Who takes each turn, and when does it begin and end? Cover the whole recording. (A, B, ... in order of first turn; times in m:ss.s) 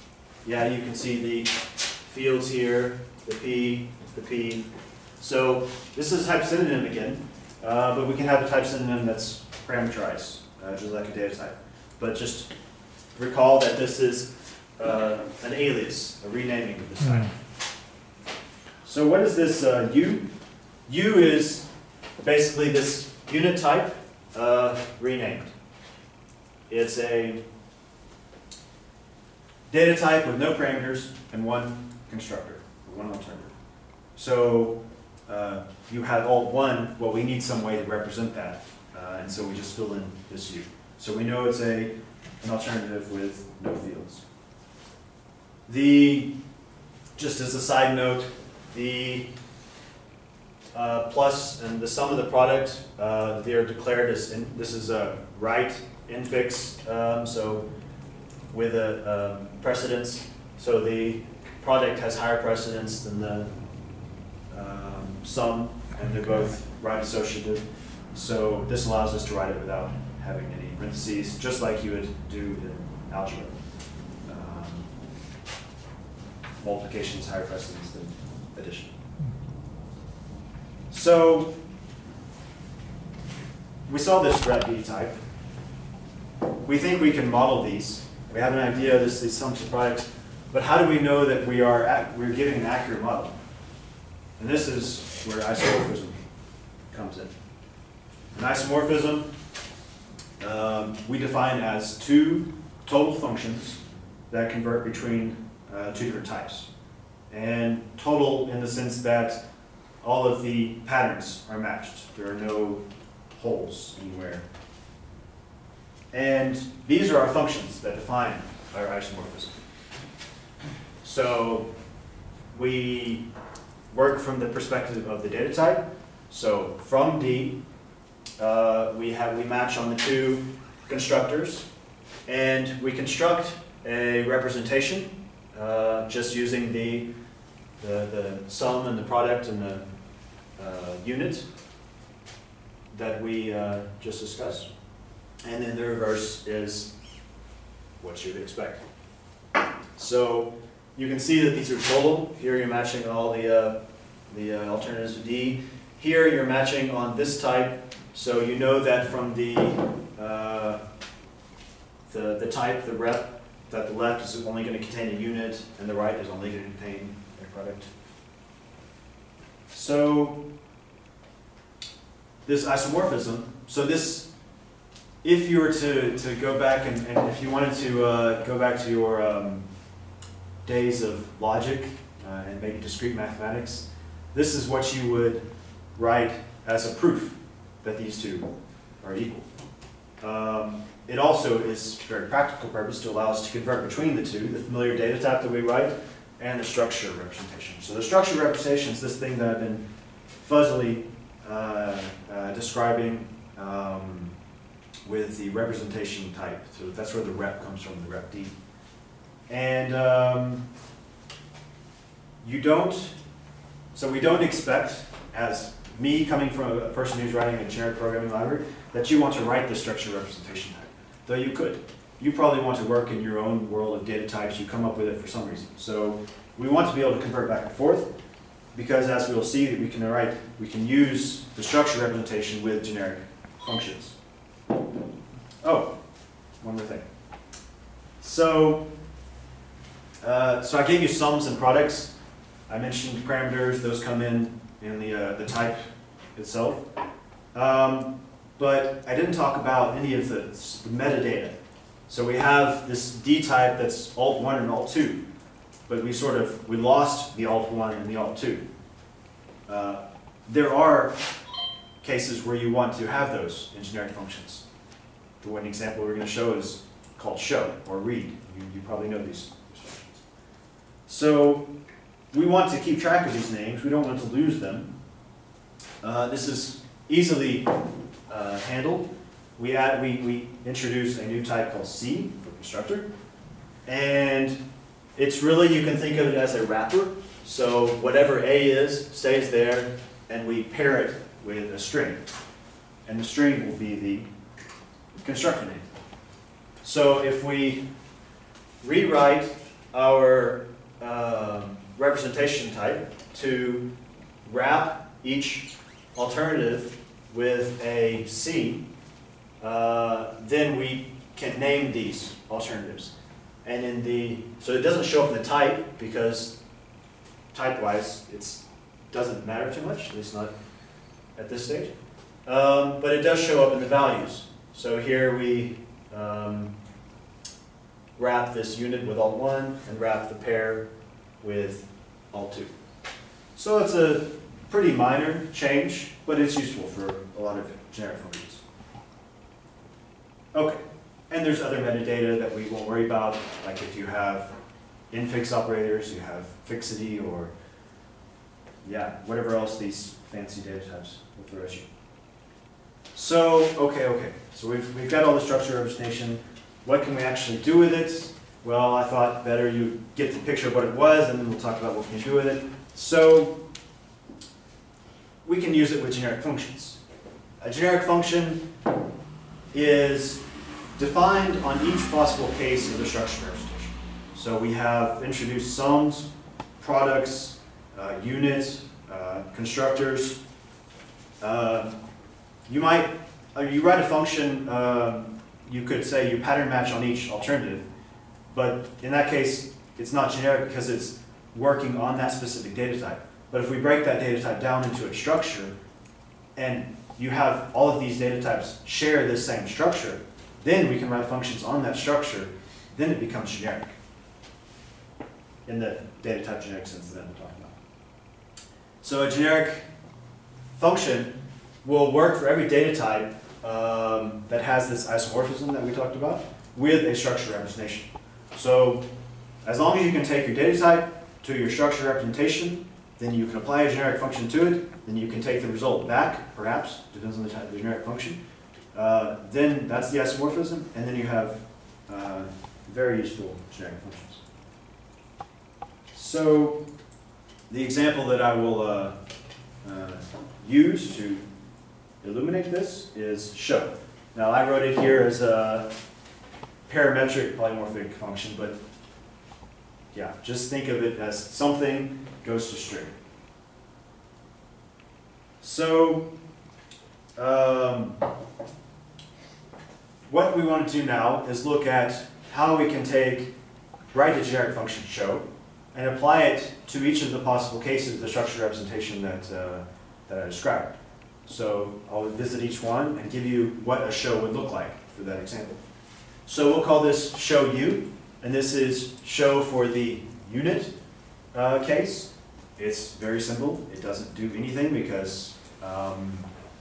0:00.4-0:04.6 A
0:05.2-0:12.5 A
0:13.2-0:17.3 A
0:18.8-0:20.2 A
0:20.8-0:21.6 A
0:22.2-0:25.5 A
0:26.7-0:27.4 A
0:29.7-0:33.5 A
0:34.2-0:44.2 A
0:45.7-0:46.3 A
0:47.2-0:49.3 A
0:50.7-0:57.6 A
0:58.5-1:03.5 A
1:04.5-1:13.5 A
1:14.2-1:14.9 A
1:16.6-1:18.9 A
1:20.9-1:21.5 A
1:23.9-1:25.2 A
1:26.6-1:33.3 A
1:34.4-1:36.2 A
1:36.9-1:37.3 A
1:38.3-1:39.3 A
1:40.4-1:43.8 A
1:44.3-1:46.7 A
1:47.3-1:49.4 A
1:50.0-1:52.8 A
1:53.3-1:54.4 A
1:56.1-1:59.5 A
2:01.0-2:01.7 A
2:02.5-2:03.2 A
2:03.9-2:07.6 A
2:08.4-2:11.6 A
2:12.3-2:17.1 A
2:17.8-2:19.8 A
2:20.6-2:21.4 A
2:22.9-2:24.7 A
2:25.4-2:26.9 A
2:28.0-2:28.8 A
2:30.0-2:33.8 A
2:34.3-2:40.8 A
2:42.1-2:47.9 A
2:49.7-2:50.4 A
2:52.4-2:54.3 A
2:55.2-2:59.6 A
3:00.6-3:09.5 A
3:10.2-3:19.8 A
3:20.4-3:24.3 A
3:25.0-3:28.5 A
3:29.5-3:30.6 A
3:32.4-3:33.1 A
3:33.9-3:48.1 A
3:48.7-3:54.1 A
3:55.6-3:55.9 A
3:56.6-3:57.1 A
3:58.2-3:58.9 A
4:00.2-4:02.1 A
4:02.7-4:05.8 A
4:06.3-4:06.8 A
4:07.5-4:11.6 A
4:12.1-4:15.2 A
4:15.9-4:18.6 A
4:19.7-4:21.2 A
4:22.0-4:24.6 A
4:25.4-4:30.2 A
4:31.1-4:31.7 A
4:32.3-4:34.9 A
4:36.0-4:37.7 A
4:38.3-4:43.1 A
4:43.8-4:44.6 A
4:45.2-4:52.2 A
4:53.0-4:54.3 A
4:55.2-4:55.8 A
4:56.8-4:57.8 A
4:58.8-5:03.9 A
5:04.4-5:08.8 A
5:09.6-5:13.1 A
5:13.6-5:16.6 A
5:17.5-5:20.5 A
5:21.4-5:21.9 A
5:22.4-5:26.7 A
5:28.2-5:30.9 A
5:31.4-5:32.7 A
5:33.6-5:38.6 A
5:40.5-5:44.5 A
5:45.1-5:47.5 A
5:48.8-5:51.8 A
5:53.1-6:03.6 A
6:05.4-6:07.0 A
6:07.6-6:08.6 A
6:09.7-6:10.4 A
6:11.0-6:16.3 A
6:16.8-6:20.4 A
6:21.4-6:21.9 A
6:22.7-6:27.8 A
6:28.5-6:35.7 A
6:36.6-6:44.0 A
6:45.6-6:47.8 A
6:49.0-6:49.8 A
6:50.8-6:59.0 A
6:59.6-7:08.4 A
7:08.9-7:14.4 A
7:16.1-7:16.8 A
7:17.7-7:19.2 A
7:19.8-7:21.4 A
7:22.2-7:25.9 A
7:26.9-7:28.8 A
7:30.1-7:33.1 A
7:35.6-7:36.3 A
7:37.4-7:38.2 A
7:40.3-7:43.5 A
7:44.1-7:55.8 A
7:56.4-8:00.9 A
8:01.5-8:06.5 A